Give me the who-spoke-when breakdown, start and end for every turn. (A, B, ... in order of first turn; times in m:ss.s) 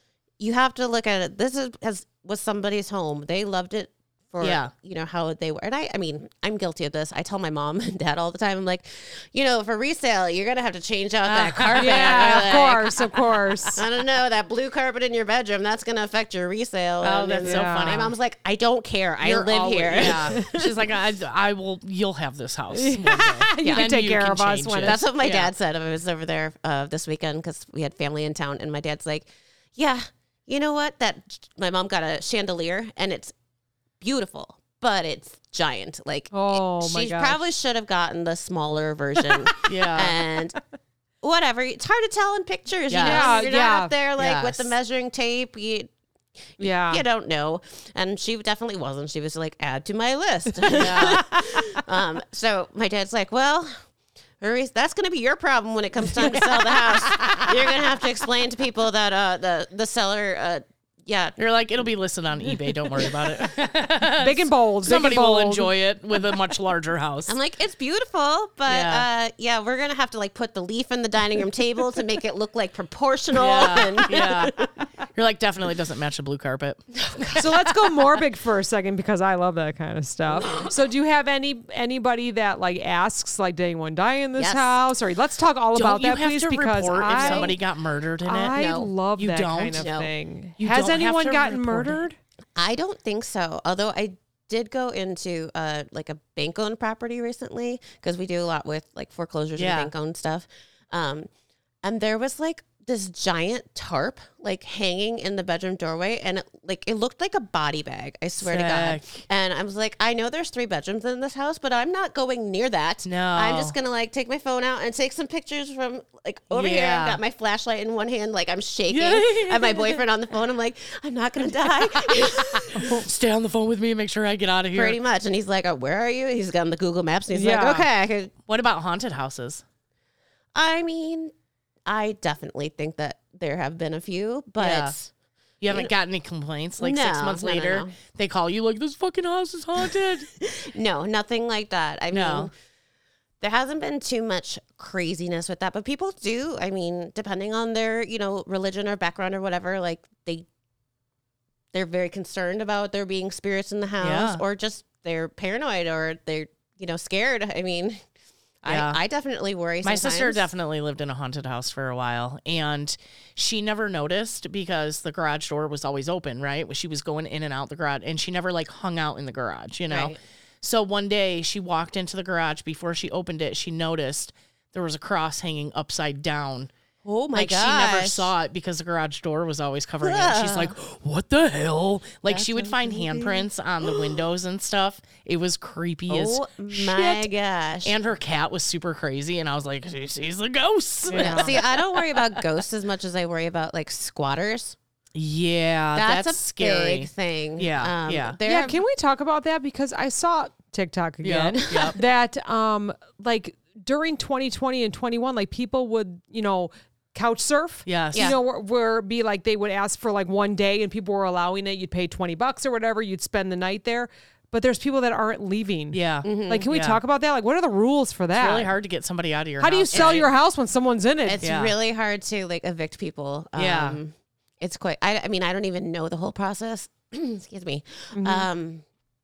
0:00.4-0:13.1 A
0:04.4-0:04.7 B
0:11.2-0:12.9 B
0:11.8-0:13.8 C
0:13.7-0:20.8 A
0:17.0-0:18.1 B
0:17.4-0:18.1 C
0:19.2-0:25.5 B
0:20.2-0:20.5 C
0:22.7-0:25.0 C
0:23.6-0:23.9 A
0:24.8-0:33.3 A
0:34.0-0:40.6 A
0:36.3-0:37.4 C
0:39.7-0:40.2 B
0:41.2-0:45.9 A
0:42.9-0:43.3 B
0:43.0-0:43.9 C
0:44.2-0:44.7 B
0:46.6-0:53.8 A
0:46.6-0:47.0 C
0:50.7-0:51.2 B
0:54.4-1:01.4 A
0:56.4-0:57.4 B
1:01.4-1:07.4 B
1:04.2-1:05.7 C
1:07.3-1:14.7 A
1:08.7-1:09.1 B
1:13.3-1:14.6 B
1:15.2-1:17.4 B
1:16.9-1:17.7 A
1:17.4-1:27.6 C
1:20.4-1:20.7 A
1:24.4-1:24.8 A
1:25.7-1:28.6 B
1:27.1-1:27.6 A
1:28.2-1:32.2 C
1:28.5-1:28.9 A
1:29.2-1:29.9 B
1:29.7-1:30.1 A
1:30.6-1:32.0 B
1:32.6-1:41.3 A
1:39.6-1:39.9 B
1:41.8-2:03.0 A
1:48.4-1:49.2 B
1:53.0-1:53.8 B
1:56.5-1:57.2 B
1:58.9-2:00.0 B
2:01.7-2:05.0 B
2:04.7-2:08.3 A
2:07.3-2:07.9 C
2:08.5-2:09.6 B
2:10.6-2:11.3 A
2:11.9-2:15.1 A
2:14.6-2:14.9 B
2:15.6-2:20.3 B
2:16.8-2:18.0 A
2:20.4-2:22.5 A
2:22.1-2:22.5 B
2:23.4-2:30.5 A
2:31.7-2:38.0 A
2:34.0-2:34.4 B
2:38.6-2:40.5 A
2:38.7-2:39.0 B
2:39.8-2:56.7 B
2:49.9-2:50.2 A
2:57.0-2:58.3 A
2:57.3-3:07.3 B
3:00.0-3:00.8 A
3:02.3-3:04.1 A
3:06.1-3:08.0 A
3:07.8-3:12.4 B
3:11.1-3:14.8 A
3:11.1-3:11.5 C
3:15.2-3:18.4 B
3:16.0-3:18.8 A
3:18.4-3:38.7 C
3:21.2-3:22.0 B
3:21.5-3:22.0 A
3:27.9-3:28.3 B
3:35.9-3:37.0 B
3:36.2-3:36.7 A
3:38.4-3:40.3 B
3:39.6-3:41.4 C
3:39.9-3:40.3 A
3:41.3-3:48.8 A
3:41.4-3:41.8 B
3:43.6-3:44.0 B
3:48.1-3:48.5 C